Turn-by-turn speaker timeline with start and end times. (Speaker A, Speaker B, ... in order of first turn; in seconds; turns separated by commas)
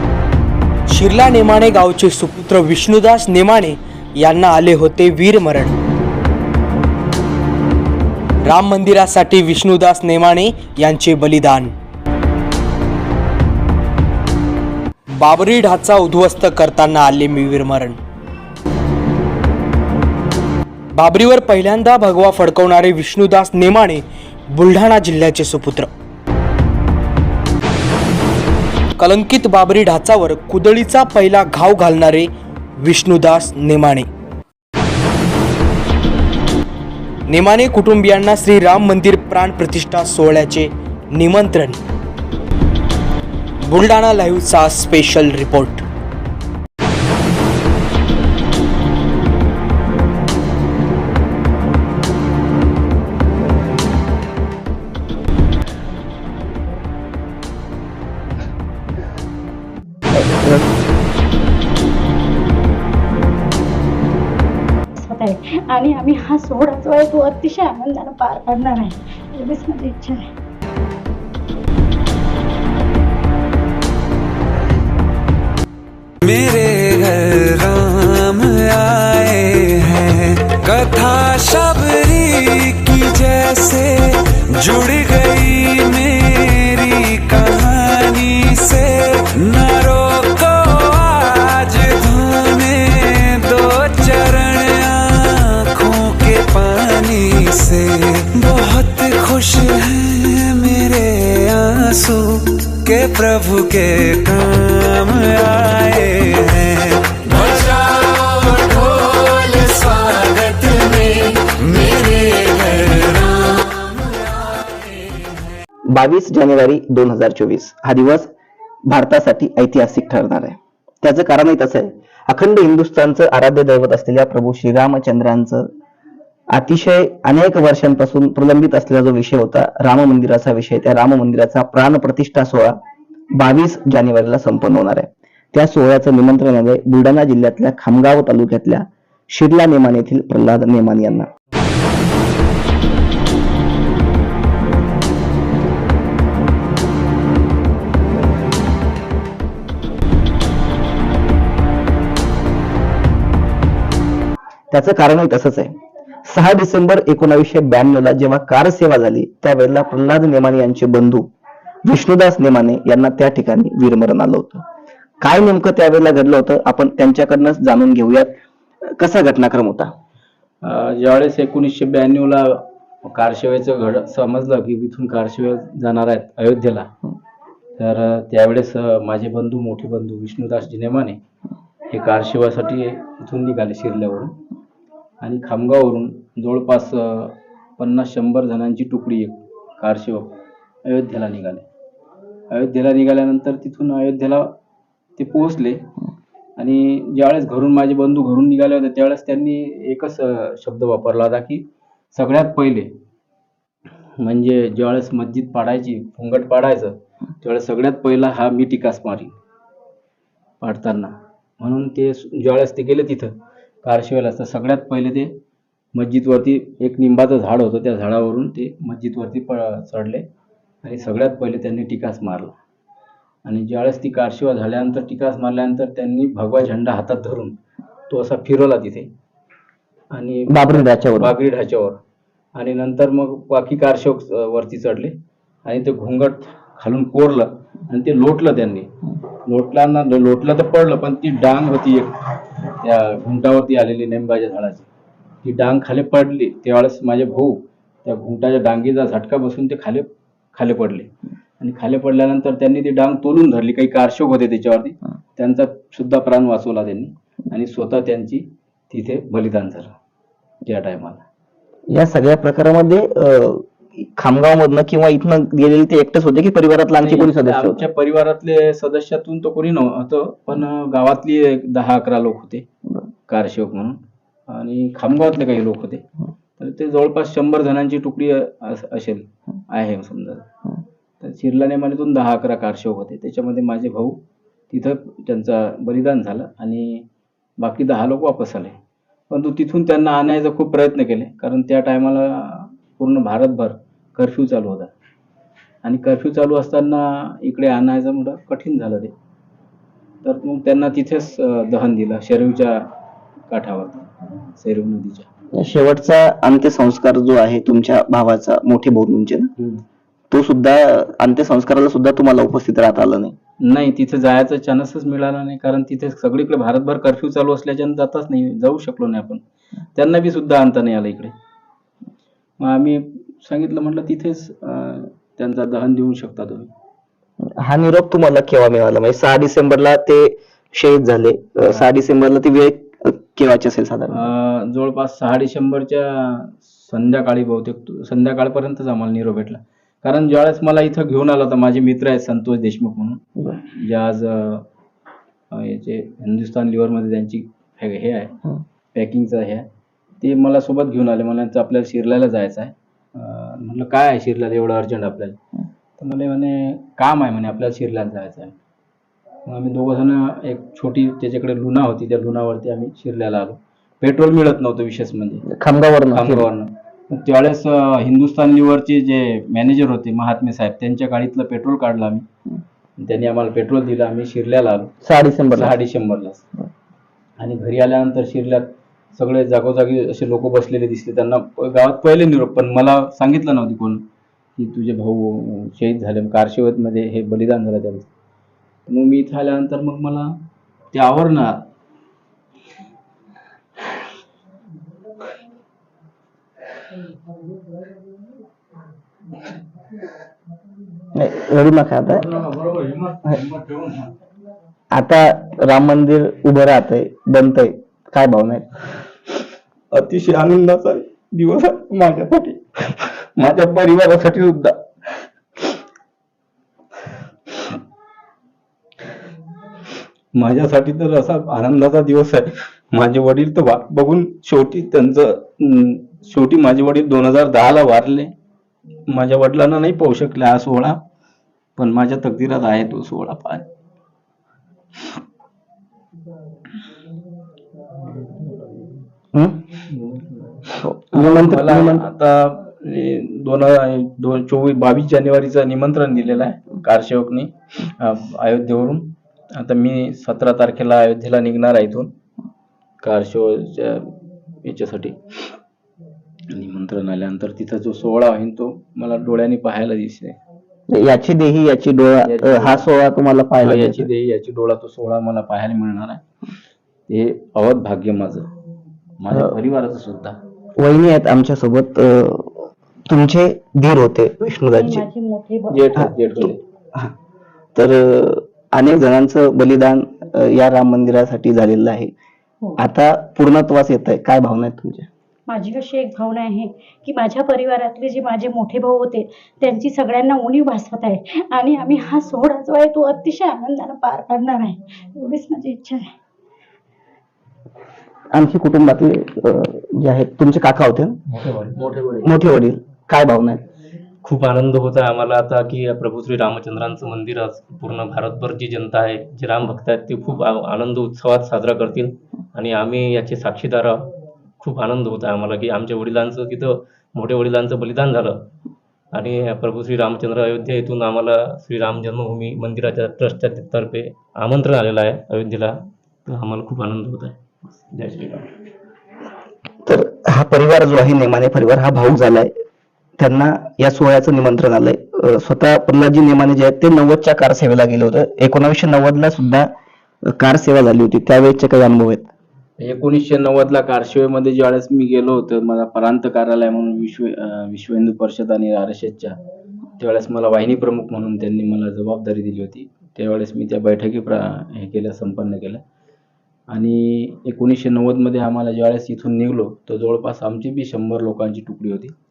Speaker A: 0.9-5.7, Speaker A: 8.4-11.7, Speaker A: 15.2-18.0, Speaker A: 21.0-25.9, Speaker A: 29.0-34.1, Speaker A: 37.3-41.8, Speaker A: 43.6-45.8, Speaker B: 60.1-60.7, Speaker C: 65.0-70.3, Speaker D: 76.2-115.3, Speaker B: 115.9-118.3, Speaker B: 118.9-125.7, Speaker B: 126.5-132.8, Speaker B: 133.3-141.3, Speaker B: 154.7-161.3, Speaker B: 161.8-164.6, Speaker B: 165.2-168.4, Speaker B: 169.0-169.9, Speaker E: 170.6-176.9, Speaker E: 177.8-181.2, Speaker E: 181.9-184.4, Speaker E: 185.2-191.7, Speaker E: 192.5-194.5, Speaker E: 195.2-195.8, Speaker E: 196.6-202.9, Speaker E: 204.2-209.3, Speaker E: 210.6-215.3, Speaker E: 215.9-220.2, Speaker E: 220.8-222.6, Speaker E: 223.4-227.6, Speaker E: 228.1-229.1, Speaker E: 230.1-232.0, Speaker B: 230.5-231.3, Speaker E: 232.6-238.9, Speaker E: 239.5-242.2, Speaker E: 242.7-244.9, Speaker E: 245.4-259.9, Speaker E: 260.6-261.2, Speaker B: 261.9-267.8, Speaker E: 267.0-272.7, Speaker E: 273.3-276.1, Speaker E: 276.6-280.5, Speaker E: 281.2-284.2, Speaker E: 284.7-287.1, Speaker E: 287.6-288.8, Speaker E: 289.3-294.9, Speaker E: 295.8-299.1, Speaker E: 300.2-302.9, Speaker E: 303.5-305.3, Speaker B: 305.5-309.5, Speaker E: 309.6-309.8, Speaker B: 310.3-313.4, Speaker E: 313.6-319.4, Speaker E: 319.9-321.3, Speaker E: 322.6-326.7, Speaker B: 327.4-334.3, Speaker E: 334.1-344.6, Speaker E: 345.5-348.4, Speaker E: 348.9-349.7, Speaker E: 350.2-355.4, Speaker E: 356.0-358.5, Speaker E: 359.5-365.4, Speaker B: 365.5-366.5, Speaker E: 366.1-372.2, Speaker E: 373.0-374.9, Speaker B: 375.0-375.8, Speaker E: 375.5-376.5, Speaker E: 377.4-384.0, Speaker E: 384.6-388.1, Speaker E: 388.9-390.3, Speaker E: 390.9-391.7, Speaker B: 401.1-402.3, Speaker E: 402.2-404.1, Speaker B: 404.9-408.7, Speaker E: 409.9-414.9, Speaker E: 420.4-428.3, Speaker E: 429.1-431.0, Speaker E: 431.8-433.7, Speaker B: 439.3-439.6, Speaker E: 439.9-452.1, Speaker B: 440.8-442.1, Speaker E: 453.0-455.4, Speaker E: 456.5-460.4, Speaker B: 460.9-464.1, Speaker E: 462.2-462.9, Speaker E: 463.6-466.2, Speaker E: 467.1-468.5, Speaker E: 469.2-470.4, Speaker B: 470.8-475.1, Speaker C: 474.8-475.8, Speaker E: 475.7-476.6, Speaker B: 476.0-477.1, Speaker B: 477.8-482.1, Speaker B: 482.8-485.1, Speaker C: 485.5-496.1, Speaker B: 498.3-501.2, Speaker E: 501.3-502.3, Speaker B: 502.2-503.6, Speaker F: 504.2-518.5, Speaker F: 519.1-528.5, Speaker B: 529.9-532.5, Speaker B: 533.2-539.7, Speaker B: 540.3-542.3, Speaker E: 542.8-549.4, Speaker E: 550.0-555.8, Speaker E: 556.7-562.1